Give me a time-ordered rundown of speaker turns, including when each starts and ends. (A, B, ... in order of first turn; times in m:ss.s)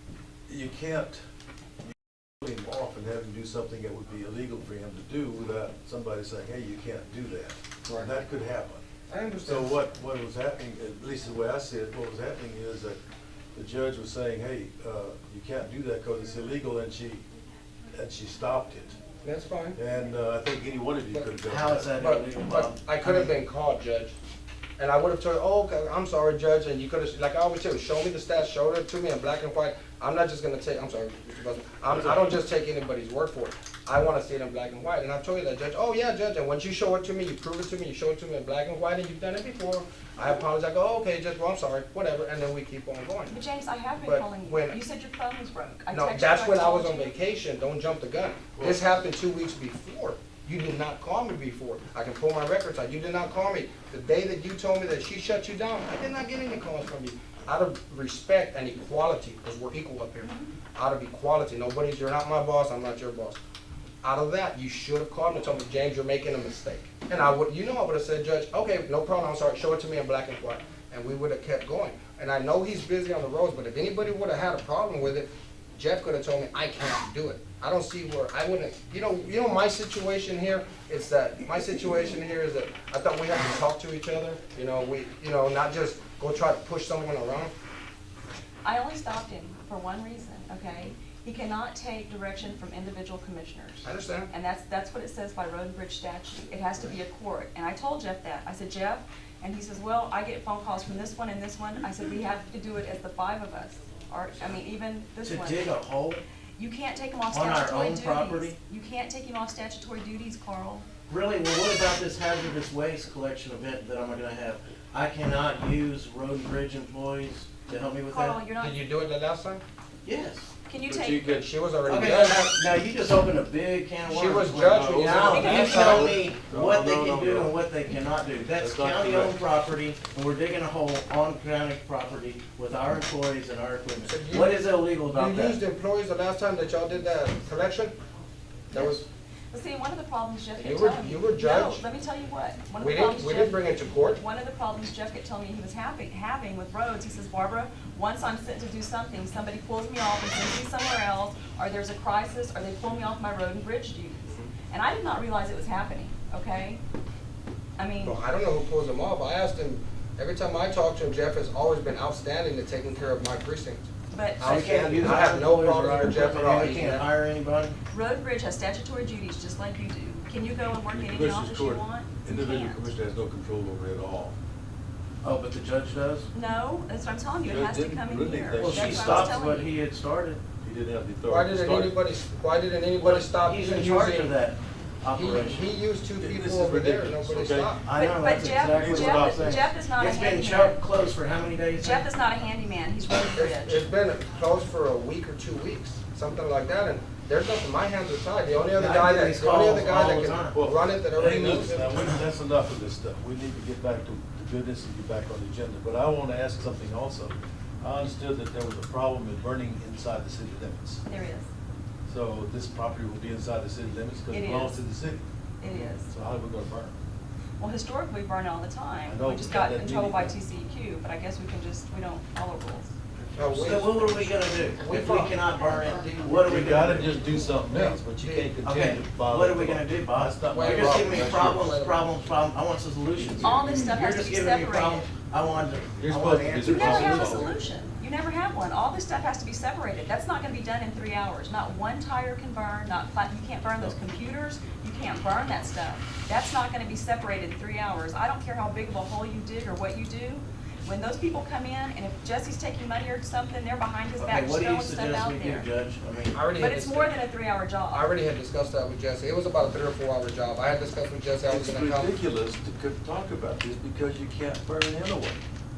0:00.5-0:01.2 A
0:02.4-0:08.8 A
0:07.9-0:08.1 B
0:09.1-0:09.8 B
0:09.4-0:13.0 A
0:13.6-0:17.2 A
0:17.9-0:19.0 A
0:19.2-0:19.8 B
0:19.8-0:21.9 A
0:21.5-0:23.4 C
0:22.0-0:24.2 B
0:24.8-0:43.4 B
0:31.9-0:32.2 A
0:43.3-0:47.1 D
0:44.0-0:44.8 B
0:45.9-1:03.4 B
1:00.2-1:00.5 D
1:04.0-1:27.5 B
1:28.6-1:45.8 D
1:33.8-1:34.3 B
1:45.2-1:46.2 C
1:46.6-1:50.9 D
1:47.3-1:48.6 C
1:51.1-1:58.4 C
1:58.0-1:58.8 D
1:58.6-1:59.6 B
2:00.0-2:00.5 C
2:00.7-2:01.3 D
2:00.9-2:01.5 A
2:01.2-2:02.5 B
2:01.9-2:15.6 C
2:04.1-2:06.1 B
2:05.3-2:06.1 D
2:05.3-2:07.5 A
2:08.6-2:09.4 A
2:14.1-2:18.0 B
2:18.7-2:19.0 B
2:19.5-2:36.8 D
2:20.6-2:21.8 B
2:22.8-2:24.2 B
2:37.8-2:38.2 D
2:38.0-2:43.9 B
2:44.1-2:44.7 D
2:44.4-2:47.1 B
2:44.4-2:47.8 C
2:47.9-2:52.8 D
2:50.9-2:54.4 A
2:55.2-2:56.3 C
2:56.3-2:59.7 D
2:57.4-2:59.4 A
2:58.6-3:00.4 C
3:00.6-3:02.0 A
3:01.3-3:04.3 B
3:03.0-3:05.7 C
3:05.1-3:07.8 B
3:06.2-3:07.8 A
3:07.8-3:12.1 C
3:08.0-3:10.8 D
3:08.7-3:09.7 A
3:11.7-3:13.8 D
3:13.4-3:22.0 B
3:18.8-3:20.6 C
3:20.5-3:31.0 A
3:21.2-3:22.2 C
3:31.1-3:31.5 D
3:32.1-3:35.3 A
3:34.3-3:34.8 D
3:35.6-3:36.1 D
3:36.1-3:37.0 A
3:37.6-3:43.0 D
3:39.1-3:40.4 A
3:43.3-3:46.5 B
3:43.6-3:47.2 C
3:46.4-3:51.8 A
3:47.5-3:48.5 B
3:48.6-3:57.6 C
3:50.5-3:52.1 B
3:53.4-3:55.1 D
3:56.0-3:57.5 A
3:56.6-4:15.7 D
4:14.2-4:16.4 C
4:16.3-4:17.1 B
4:16.5-4:18.0 D
4:17.9-4:22.1 B
4:21.5-4:25.4 A